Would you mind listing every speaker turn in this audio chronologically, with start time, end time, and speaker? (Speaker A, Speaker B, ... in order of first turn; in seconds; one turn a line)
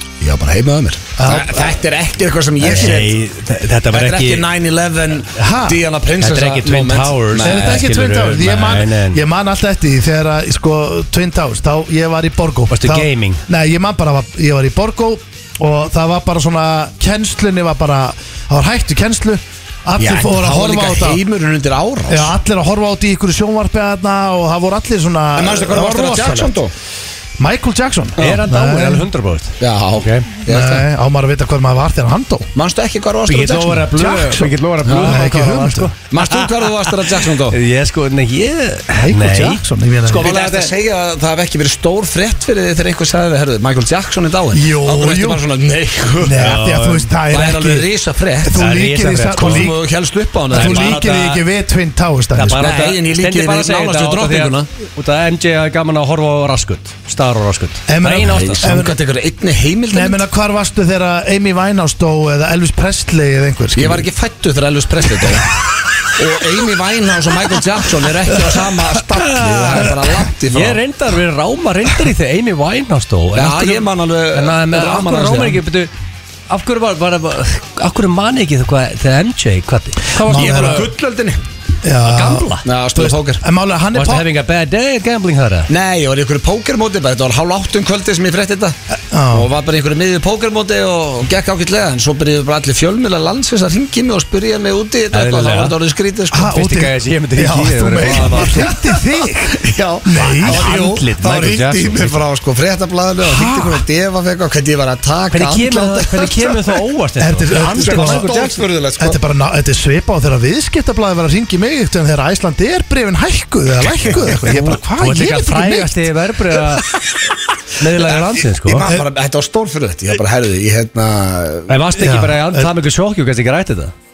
Speaker A: 0.2-3.1
Speaker B: 1.2-1.7
Speaker C: 2.6-4.4
Speaker A: 3.9-7.8
Speaker B: 5.4-5.8
Speaker C: 6.2-9.2
Speaker B: 7.4-21.2
Speaker C: 12.7-13.4
Speaker A: 20.0-22.3
Speaker B: 22.1-26.6
Speaker A: 25.4-26.7
Speaker B: 27.4-29.1
Speaker C: 28.2-30.3
Speaker A: 29.6-30.8
Speaker B: 30.5-32.5
Speaker A: 32.5-33.9
Speaker C: 33.3-40.7
Speaker B: 33.9-35.9
Speaker A: 34.9-35.2
Speaker A: 36.1-37.6
Speaker B: 39.0-40.3
Speaker A: 40.2-46.5
Speaker B: 44.5-45.4
Speaker B: 46.2-47.9
Speaker C: 46.4-47.1
Speaker A: 47.3-48.5
Speaker B: 48.4-49.8
Speaker C: 48.5-49.7
Speaker A: 49.4-51.0
Speaker B: 50.5-52.7
Speaker C: 50.5-51.4
Speaker C: 52.4-58.6
Speaker A: 52.6-54.7
Speaker B: 57.9-59.0
Speaker A: 58.1-60.2
Speaker B: 59.9-64.1
Speaker A: 63.8-65.5
Speaker A: 66.1-70.8
Speaker C: 69.2-69.9
Speaker C: 70.5-75.9
Speaker A: 73.4-75.6
Speaker C: 76.5-80.8
Speaker B: 80.2-80.9
Speaker A: 80.2-81.4
Speaker B: 81.8-84.3
Speaker C: 82.1-82.7
Speaker A: 82.6-83.4
Speaker C: 83.9-85.7
Speaker A: 85.7-88.8
Speaker B: 89.1-89.5
Speaker A: 89.3-96.5
Speaker C: 95.1-95.7
Speaker B: 96.3-100.7
Speaker C: 96.5-98.7
Speaker A: 98.0-98.8
Speaker A: 99.5-106.7
Speaker C: 100.2-102.2
Speaker B: 103.2-103.8
Speaker C: 105.3-108.6
Speaker B: 107.2-108.3
Speaker A: 107.7-109.2
Speaker B: 109.0-116.1
Speaker A: 113.9-114.7
Speaker C: 114.3-116.8
Speaker C: 117.8-118.9
Speaker A: 118.0-121.7
Speaker C: 121.7-123.9
Speaker B: 122.0-122.7